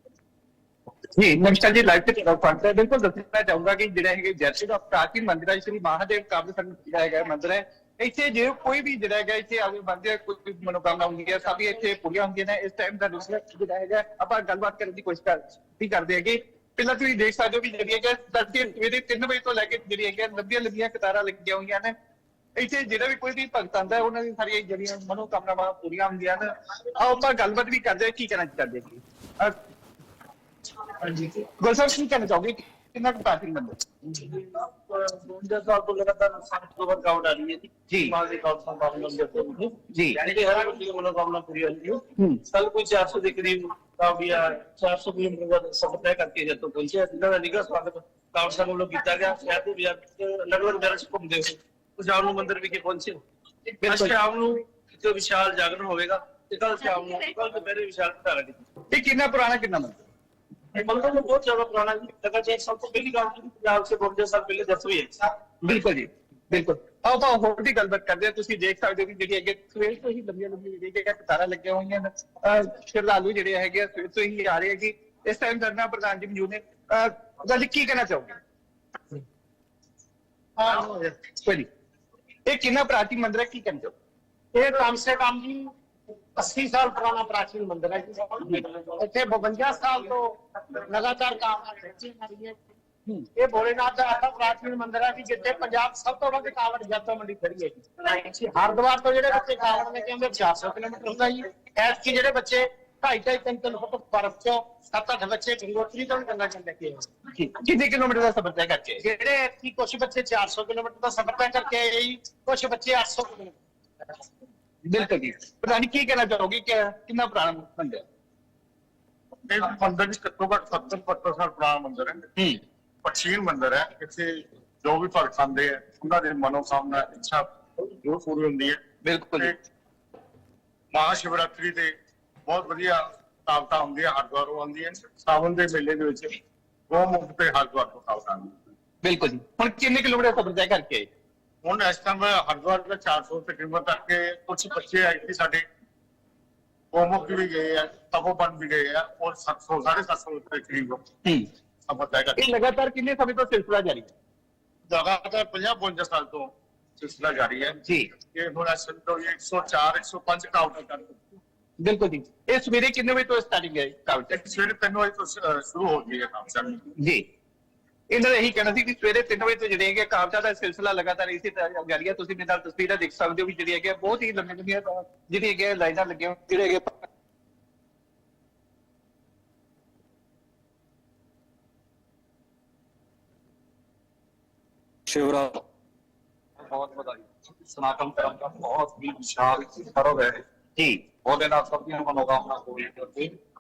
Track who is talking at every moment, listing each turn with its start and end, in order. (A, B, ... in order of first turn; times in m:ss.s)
0:01.2-0:21.9 A
0:22.6-0:29.6 A
0:31.0-0:33.8 A
0:34.1-0:53.2 B
0:37.9-0:38.2 A
0:39.9-0:40.2 A
0:53.8-0:58.6 B
0:53.8-0:54.2 A
0:58.9-1:00.0 A
1:00.7-1:05.3 B
1:05.6-1:18.4 A
1:20.6-1:21.2 C
1:21.4-1:21.7 A
1:22.5-1:23.9 A
1:24.5-1:25.7 C
1:26.4-1:32.6 C
1:33.4-1:47.1 C
1:47.3-1:49.0 A
1:49.0-1:53.5 C
1:54.8-1:58.0 A
1:59.5-2:02.2 D
2:03.0-2:08.8 D
2:09.0-2:09.5 A
2:10.9-2:11.9 D
2:12.5-2:16.4 D
2:16.9-2:18.6 D
2:19.0-2:21.1 A
2:21.6-2:25.6 D
2:26.9-2:31.1 D
2:31.9-2:32.4 D
2:32.4-2:34.1 A
2:34.9-2:41.2 D
2:37.8-2:38.1 A
2:41.8-2:44.4 A
2:44.4-2:46.8 D
2:46.9-2:47.2 A
2:48.1-2:57.1 A
3:05.1-3:05.6 E
3:06.7-3:07.2 E
3:07.8-3:10.2 E
3:10.8-3:11.4 A
3:11.4-3:13.3 E